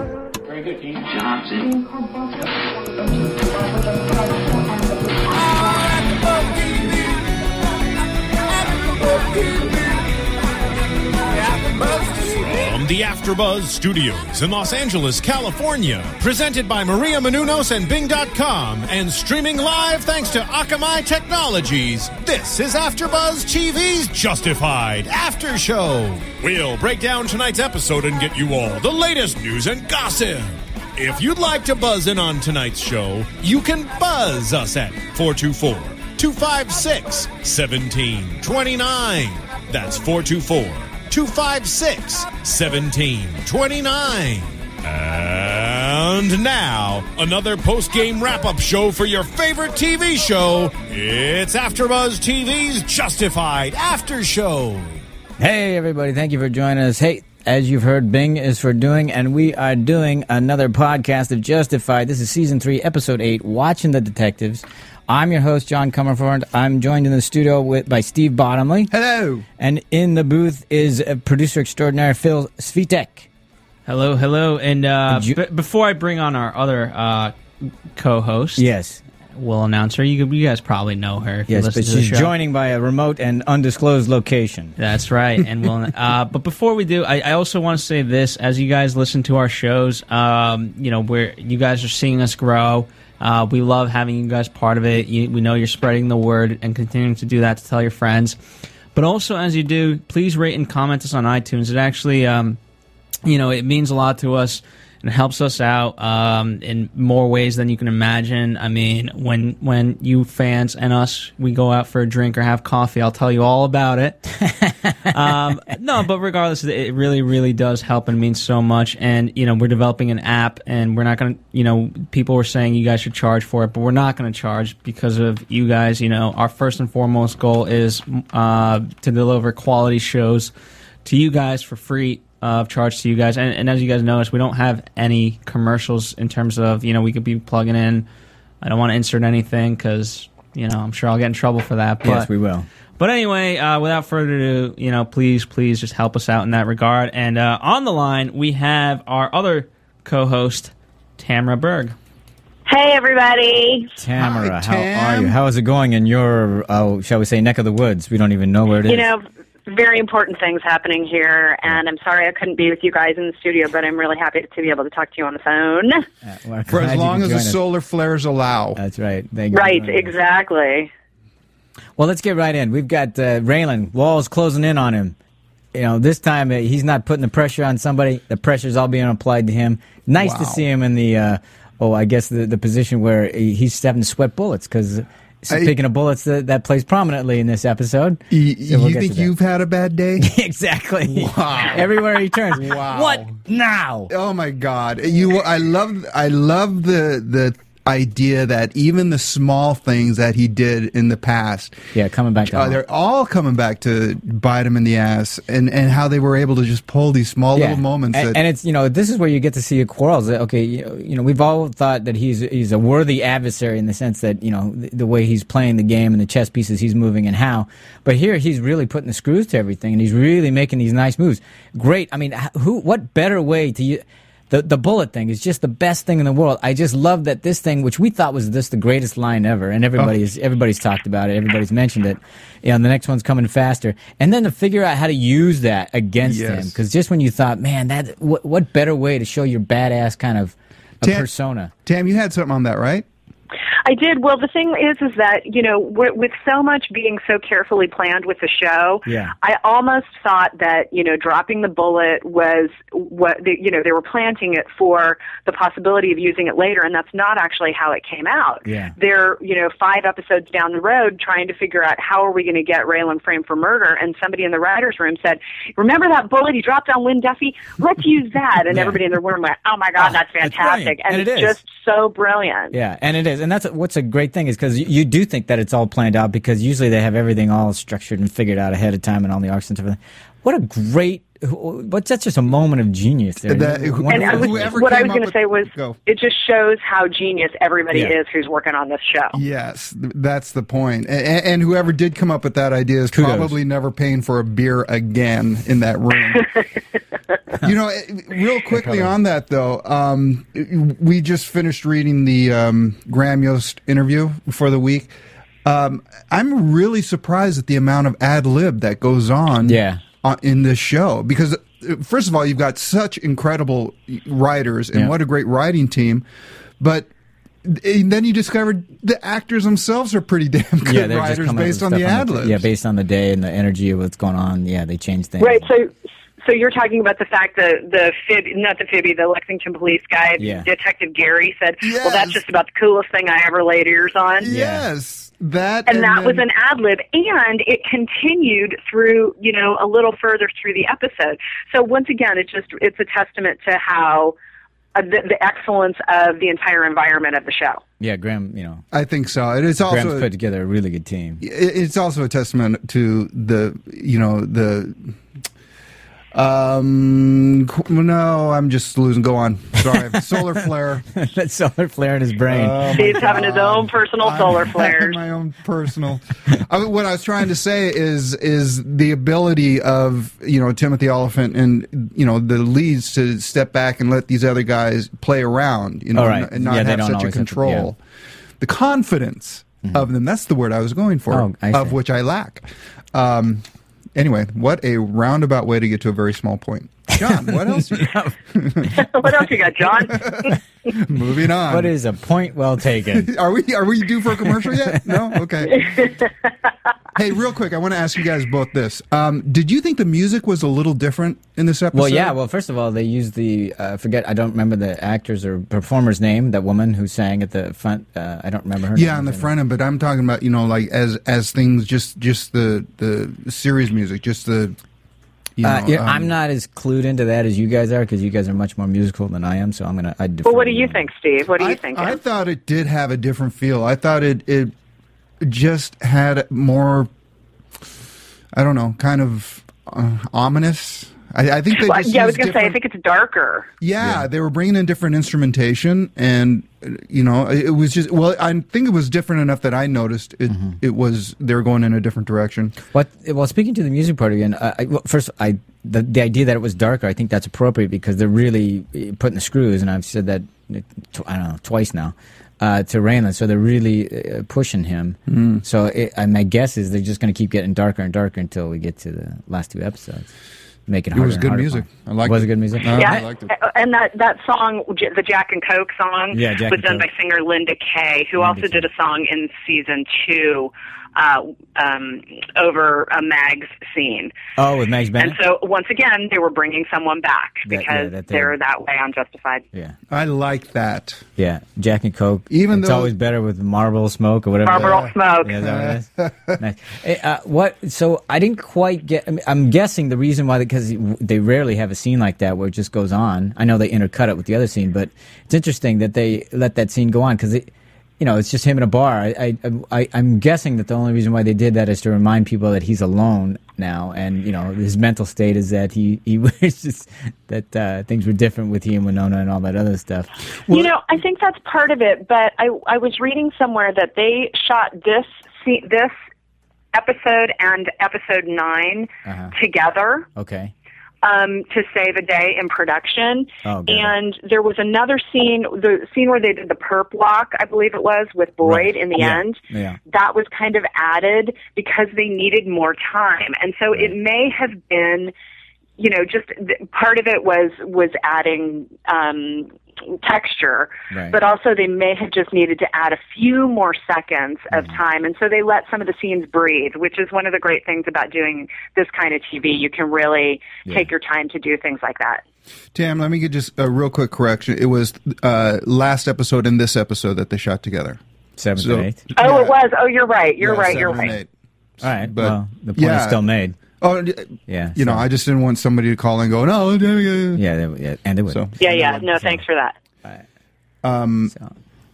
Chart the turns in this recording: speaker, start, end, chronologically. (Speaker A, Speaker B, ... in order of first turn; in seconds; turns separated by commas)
Speaker A: 6.3-6.9, Speaker A: 8.9-9.6, Speaker A: 11.6-55.0, Speaker B: 55.4-68.9, Speaker C: 68.9-69.5, Speaker B: 69.6-73.3, Speaker D: 73.9-77.4, Speaker B: 75.1-75.4, Speaker D: 78.0-78.6, Speaker B: 78.6-79.0, Speaker D: 79.4-82.3, Speaker B: 81.5-84.8, Speaker D: 84.8-98.4, Speaker D: 98.9-102.6, Speaker D: 103.2-114.4, Speaker D: 115.0-130.5, Speaker D: 131.1-138.1, Speaker D: 138.6-142.3, Speaker B: 142.0-142.7, Speaker D: 143.0-151.9, Speaker E: 152.7-153.9, Speaker B: 154.0-159.1, Speaker C: 154.2-155.4, Speaker E: 158.9-166.1, Speaker B: 166.2-167.6, Speaker C: 166.7-168.8, Speaker B: 168.8-170.1, Speaker E: 169.5-170.9, Speaker B: 172.0-175.2, Speaker B: 175.7-189.3, Speaker C: 180.2-180.6, Speaker C: 188.3-190.3, Speaker B: 190.2-194.1, Speaker C: 191.1-193.4, Speaker D: 192.9-193.2, Speaker C: 194.1-201.8, Speaker B: 201.9-202.8, Speaker C: 202.4-208.4, Speaker B: 207.6-241.7, Speaker C: 236.2-236.8, Speaker C: 241.0-241.3, Speaker C: 241.8-243.1, Speaker E: 243.8-272.8, Speaker B: 249.1-249.3, Speaker B: 258.7-258.9, Speaker B: 268.7-269.0, Speaker B: 270.0-271.6, Speaker B: 272.7-284.8, Speaker C: 283.5-286.0, Speaker E: 284.1-289.4, Speaker C: 289.3-296.5, Speaker B: 293.1-293.5, Speaker C: 297.6-305.1, Speaker B: 298.8-299.1, Speaker C: 305.6-316.2, Speaker B: 309.6-310.0, Speaker C: 316.8-317.1, Speaker C: 317.6-322.7, Speaker B: 320.8-325.7, Speaker E: 325.4-334.5, Speaker B: 330.4-330.7, Speaker C: 331.8-332.4, Speaker C: 334.4-336.4, Speaker B: 334.5-334.9, Speaker E: 335.9-344.4, Speaker E: 344.9-347.8, Speaker B: 348.0-348.8, Speaker C: 348.9-350.3, Speaker B: 349.9-351.4, Speaker C: 351.4-355.1, Speaker C: 356.3-361.1, Speaker B: 359.8-360.5, Speaker B: 361.1-363.3, Speaker C: 362.5-378.0, Speaker E: 362.9-365.2, Speaker B: 376.1-377.9, Speaker C: 378.6-383.6, Speaker B: 381.3-382.0, Speaker C: 384.2-389.0, Speaker B: 387.2-389.1, Speaker E: 388.9-390.6, Speaker C: 389.9-391.9, Speaker B: 391.7-393.3, Speaker C: 393.1-396.1, Speaker B: 394.4-395.4, Speaker E: 395.7-396.3, Speaker C: 397.1-402.4, Speaker B: 401.9-409.5, Speaker C: 408.9-414.8, Speaker C: 415.6-416.3, Speaker B: 415.6-421.1, Speaker E: 420.4-422.2, Speaker C: 421.6-424.7, Speaker C: 425.4-427.1, Speaker C: 428.5-432.8, Speaker E: 431.7-433.7, Speaker C: 433.8-442.8, Speaker B: 440.5-440.8, Speaker B: 442.9-460.3, Speaker C: 455.3-455.6, Speaker B: 460.9-463.2, Speaker C: 461.1-463.5, Speaker E: 462.9-474.3, Speaker B: 466.3-467.1, Speaker B: 468.4-468.9, Speaker B: 474.6-475.4, Speaker E: 475.2-479.6, Speaker B: 477.6-478.5, Speaker C: 480.1-481.2, Speaker B: 481.4-510.4, Speaker C: 482.5-483.1, Speaker E: 484.7-485.5, Speaker C: 484.7-486.6, Speaker E: 510.7-516.1, Speaker E: 516.9-520.3, Speaker B: 519.2-519.5, Speaker B: 520.4-520.7, Speaker E: 521.2-535.3, Speaker B: 523.6-524.1, Speaker B: 528.6-530.0, Speaker E: 536.0-552.4, Speaker B: 541.1-541.4, Speaker C: 552.9-558.2, Speaker B: 558.6-559.2, Speaker C: 558.8-559.8, Speaker E: 559.4-561.3, Speaker C: 560.6-561.5, Speaker C: 562.0-563.4, Speaker B: 562.0-563.8, Speaker C: 564.0-567.6, Speaker B: 564.7-565.2, Speaker B: 567.5-569.6, Speaker C: 568.5-569.2, Speaker E: 568.8-570.0, Speaker C: 571.0-571.5